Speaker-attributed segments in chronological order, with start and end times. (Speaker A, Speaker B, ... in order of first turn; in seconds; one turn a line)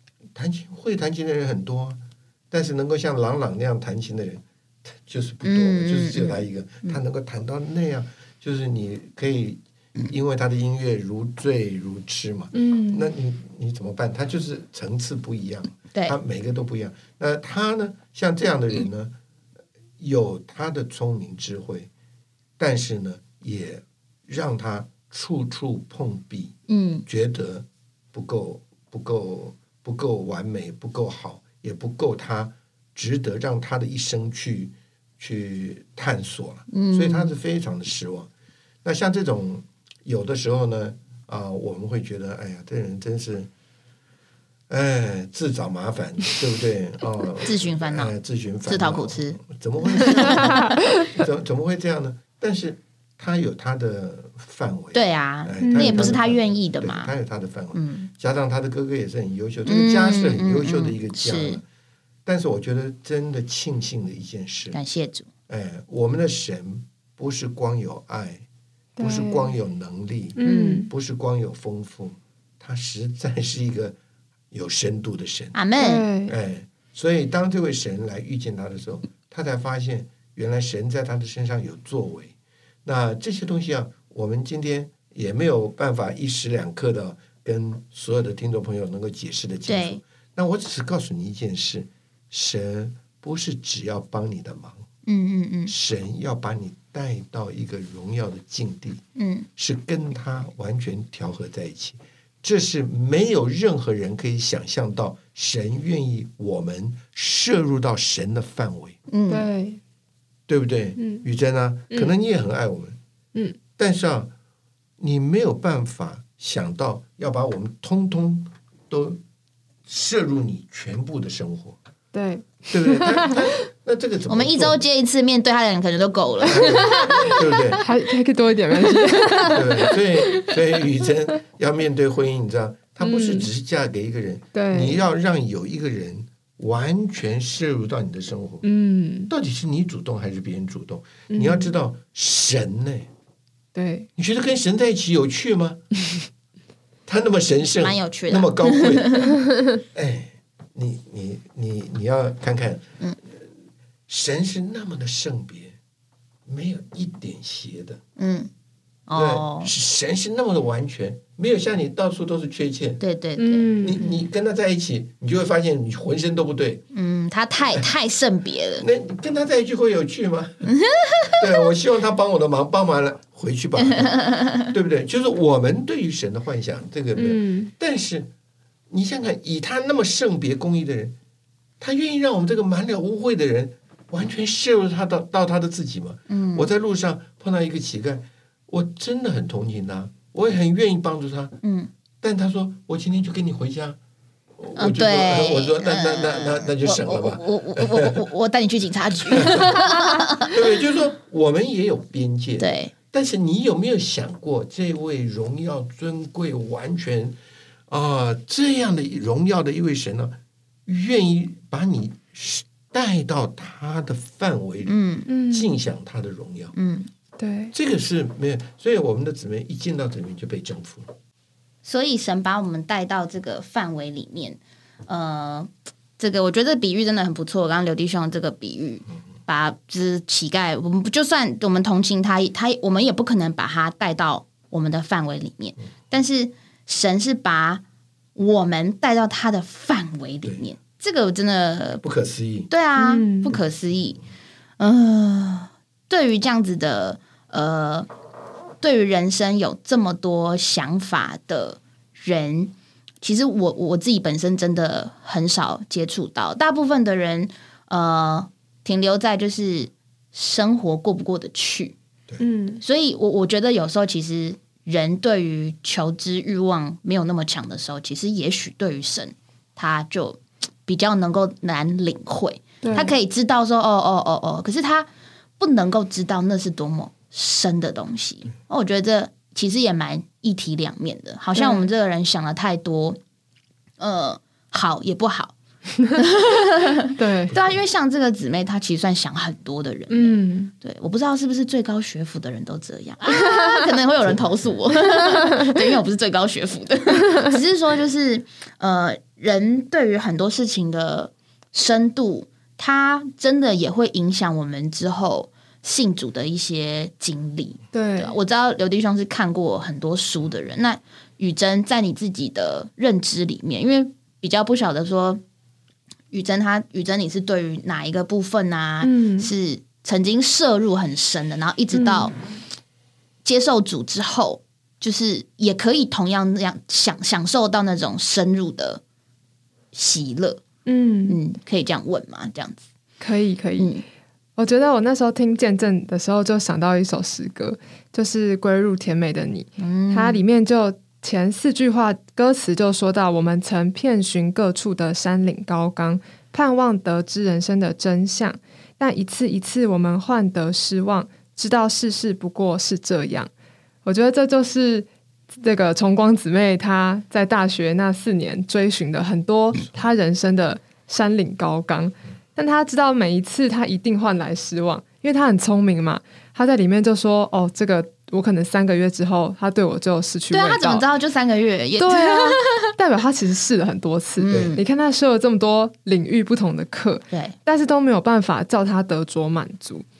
Speaker A: 0.3-19.1
Speaker B: 5.4-7.0
Speaker C: 12.5-13.1
Speaker B: 15.9-16.1
Speaker A: 20.0-21.9
Speaker A: 22.6-26.5
Speaker B: 26.7-27.1
Speaker A: 27.1-38.3
Speaker B: 36.7-37.4
Speaker A: 38.8-43.5
Speaker A: 44.7-61.6
Speaker B: 47.5-48.1
Speaker B: 48.6-49.4
Speaker B: 49.9-50.5
Speaker C: 50.0-51.0
Speaker B: 54.9-57.1
Speaker C: 55.6-56.2
Speaker B: 57.7-58.1
Speaker B: 59.6-61.6
Speaker A: 62.2-64.8
Speaker B: 64.7-65.3
Speaker A: 65.5-68.5
Speaker C: 69.0-69.5
Speaker A: 69.0-74.0
Speaker C: 70.3-70.9
Speaker B: 70.4-70.8
Speaker A: 74.5-75.7
Speaker B: 75.5-76.1
Speaker C: 75.8-76.3
Speaker A: 76.2-94.8
Speaker B: 89.7-90.0
Speaker B: 95.0-95.7
Speaker A: 95.7-99.0
Speaker B: 99.2-99.5
Speaker A: 99.5-109.0
Speaker B: 109.1-109.5
Speaker C: 109.3-109.8
Speaker A: 110.5-113.0
Speaker C: 111.0-111.2
Speaker A: 113.8-114.3
Speaker A: 115.0-119.2
Speaker A: 119.9-121.8
Speaker C: 122.1-123.6
Speaker A: 122.7-124.8
Speaker B: 124.3-127.3
Speaker A: 126.5-127.8
Speaker C: 126.7-130.5
Speaker A: 129.5-138.6
Speaker C: 133.0-133.5
Speaker C: 134.5-135.0
Speaker C: 138.6-139.3
Speaker A: 139.3-143.1
Speaker C: 141.3-141.7
Speaker C: 143.7-144.1
Speaker A: 144.2-145.8
Speaker A: 147.1-149.3
Speaker B: 147.8-149.3
Speaker A: 149.9-153.5
Speaker A: 154.1-155.7
Speaker A: 156.5-158.0
Speaker B: 158.2-158.5
Speaker B: 159.1-159.7
Speaker A: 159.1-163.0
Speaker B: 163.0-163.7
Speaker C: 163.4-164.1
Speaker A: 163.8-166.8
Speaker B: 166.9-168.8
Speaker A: 168.8-170.7
Speaker B: 170.6-171.5
Speaker A: 171.4-178.3
Speaker B: 173.8-174.7
Speaker C: 177.1-177.7
Speaker A: 178.9-181.1
Speaker A: 181.8-191.6
Speaker B: 186.3-186.7
Speaker B: 191.6-191.9
Speaker A: 192.2-194.0
Speaker A: 194.6-198.2
Speaker B: 194.8-200.7
Speaker A: 199.3-199.8
Speaker A: 200.4-207.3
Speaker B: 202.6-202.9
Speaker A: 207.9-216.7
Speaker B: 214.8-215.3
Speaker C: 215.3-215.7
Speaker B: 216.7-217.1
Speaker C: 217.4-217.7
Speaker A: 217.7-221.1
Speaker B: 221.8-237.8
Speaker B: 238.3-242.0
Speaker A: 242.0-242.7
Speaker B: 242.7-244.2
Speaker C: 242.9-243.5
Speaker B: 244.8-248.1
Speaker B: 248.8-261.9
Speaker C: 262.4-262.8
Speaker B: 262.8-275.1
Speaker C: 272.8-273.1
Speaker B: 275.6-283.2
Speaker C: 281.5-281.9
Speaker B: 284.0-285.5
Speaker B: 286.1-315.4
Speaker C: 287.1-287.5
Speaker A: 287.5-287.8
Speaker C: 290.1-290.7
Speaker C: 295.1-295.7
Speaker C: 307.9-308.4
Speaker B: 316.3-322.4
Speaker C: 319.0-319.5
Speaker C: 321.9-322.3
Speaker B: 323.4-329.0
Speaker B: 329.9-330.6
Speaker C: 330.9-331.4
Speaker B: 331.3-332.8
Speaker C: 333.2-333.9
Speaker B: 333.8-334.0
Speaker C: 334.6-353.5
Speaker B: 339.8-340.4
Speaker C: 354.0-371.1
Speaker B: 370.5-372.7
Speaker C: 372.0-380.1
Speaker B: 374.4-374.8
Speaker A: 374.5-374.8
Speaker B: 377.3-377.6